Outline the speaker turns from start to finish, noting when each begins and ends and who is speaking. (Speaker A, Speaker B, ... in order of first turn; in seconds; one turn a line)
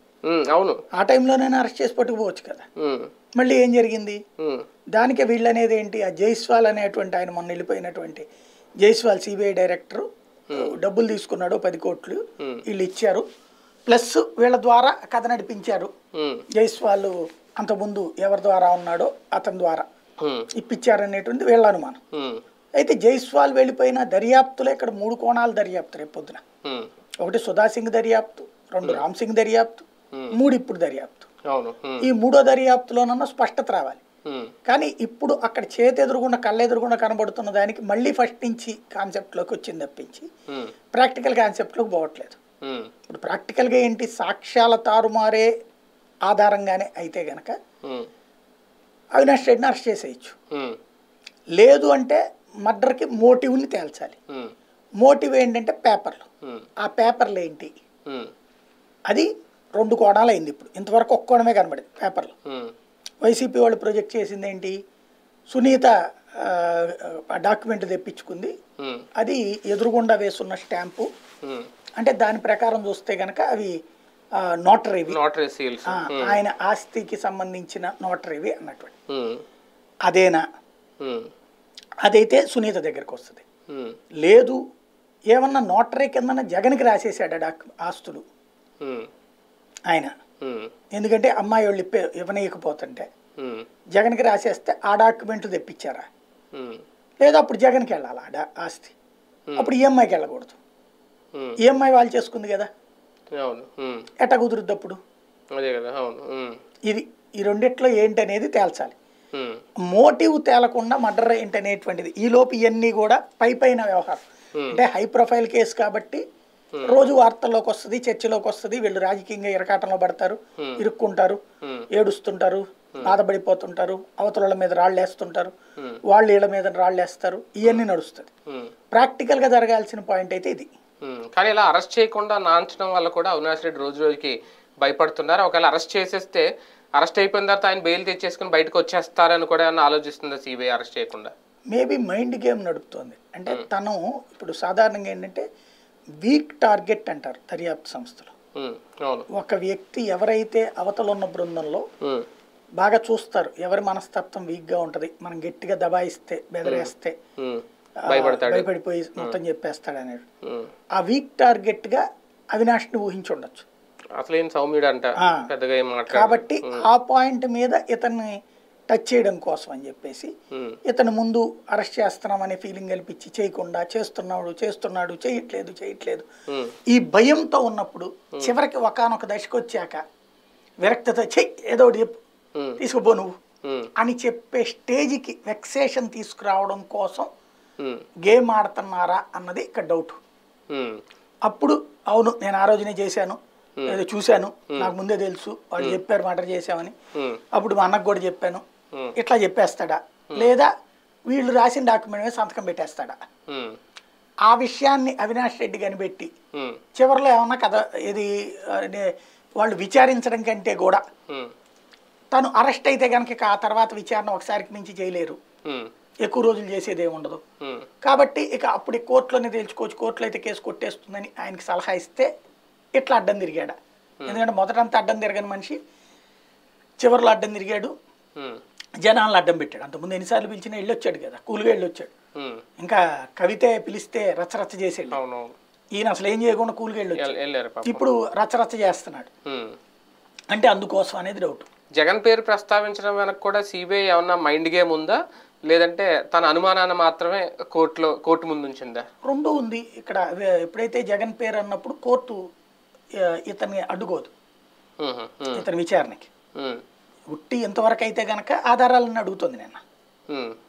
Speaker A: 0.3-0.8
Speaker B: 1.0-2.6
Speaker A: 2.8-3.1
Speaker B: 3.4-4.2
Speaker B: 4.9-8.2
Speaker B: 8.8-13.2
Speaker B: 13.9-15.9
Speaker A: 16.1-16.4
Speaker B: 16.6-19.9
Speaker A: 20.2-20.5
Speaker B: 20.6-22.0
Speaker A: 22.2-22.4
Speaker B: 22.8-26.4
Speaker B: 27.2-31.3
Speaker A: 31.5-32.0
Speaker B: 32.0-34.0
Speaker B: 34.7-40.3
Speaker B: 40.9-42.4
Speaker A: 42.6-42.9
Speaker B: 43.1-45.5
Speaker B: 46.3-47.5
Speaker B: 49.1-50.3
Speaker A: 50.5-50.8
Speaker B: 51.6-54.2
Speaker B: 55.0-56.3
Speaker B: 56.8-57.7
Speaker B: 59.1-62.3
Speaker A: 62.5-62.7
Speaker B: 63.2-64.8
Speaker B: 65.5-68.5
Speaker A: 68.8-69.1
Speaker B: 69.2-71.1
Speaker A: 71.4-71.7
Speaker B: 72.0-73.7
Speaker B: 74.6-75.2
Speaker A: 75.1-76.4
Speaker B: 75.9-78.9
Speaker A: 79.1-79.4
Speaker B: 80.1-80.4
Speaker A: 81.0-81.3
Speaker B: 82.0-83.4
Speaker A: 83.7-84.0
Speaker B: 84.2-84.6
Speaker B: 85.3-88.2
Speaker A: 88.8-89.1
Speaker A: 90.4-90.7
Speaker B: 90.9-93.0
Speaker A: 93.4-93.6
Speaker B: 94.0-96.1
Speaker A: 96.5-96.8
Speaker B: 97.2-98.9
Speaker B: 99.6-100.6
Speaker B: 101.6-102.7
Speaker A: 103.4-104.1
Speaker B: 104.2-105.0
Speaker A: 105.6-106.6
Speaker B: 106.9-109.0
Speaker B: 109.9-116.2
Speaker A: 116.8-117.0
Speaker B: 116.9-121.4
Speaker B: 121.9-125.5
Speaker B: 126.1-128.3
Speaker B: 128.9-130.7
Speaker A: 131.0-136.4
Speaker A: 137.0-141.3
Speaker B: 141.7-145.4
Speaker B: 146.2-148.3
Speaker A: 148.6-149.2
Speaker B: 149.3-151.8
Speaker B: 152.8-157.1
Speaker A: 156.6-158.7
Speaker B: 158.1-160.2
Speaker B: 161.0-162.0
Speaker B: 162.5-163.6
Speaker A: 164.2-166.8
Speaker B: 165.2-165.5
Speaker B: 166.1-168.3
Speaker B: 168.9-170.3
Speaker B: 170.9-176.2
Speaker B: 176.9-180.0
Speaker B: 180.8-182.2
Speaker B: 182.8-183.3
Speaker A: 183.6-183.9
Speaker B: 184.0-187.3
Speaker B: 188.2-190.2
Speaker A: 190.7-191.0
Speaker B: 191.5-196.9
Speaker B: 197.6-198.6
Speaker B: 199.2-200.7
Speaker B: 201.3-203.2
Speaker A: 203.5-203.8
Speaker B: 204.5-206.3
Speaker B: 207.0-209.1
Speaker B: 209.6-211.0
Speaker B: 212.3-215.4
Speaker B: 216.2-217.4
Speaker B: 218.0-222.3
Speaker B: 223.0-223.8
Speaker B: 224.3-225.8
Speaker B: 227.0-227.9
Speaker B: 229.0-232.1
Speaker B: 232.8-235.2
Speaker A: 235.1-235.5
Speaker B: 236.0-237.3
Speaker A: 237.2-238.0
Speaker B: 237.8-239.3
Speaker A: 239.5-239.8
Speaker B: 240.5-241.7
Speaker A: 242.0-249.1
Speaker B: 249.2-252.4
Speaker B: 253.5-254.3
Speaker A: 255.0-255.7
Speaker B: 255.5-256.3
Speaker B: 257.3-259.8
Speaker A: 260.3-260.6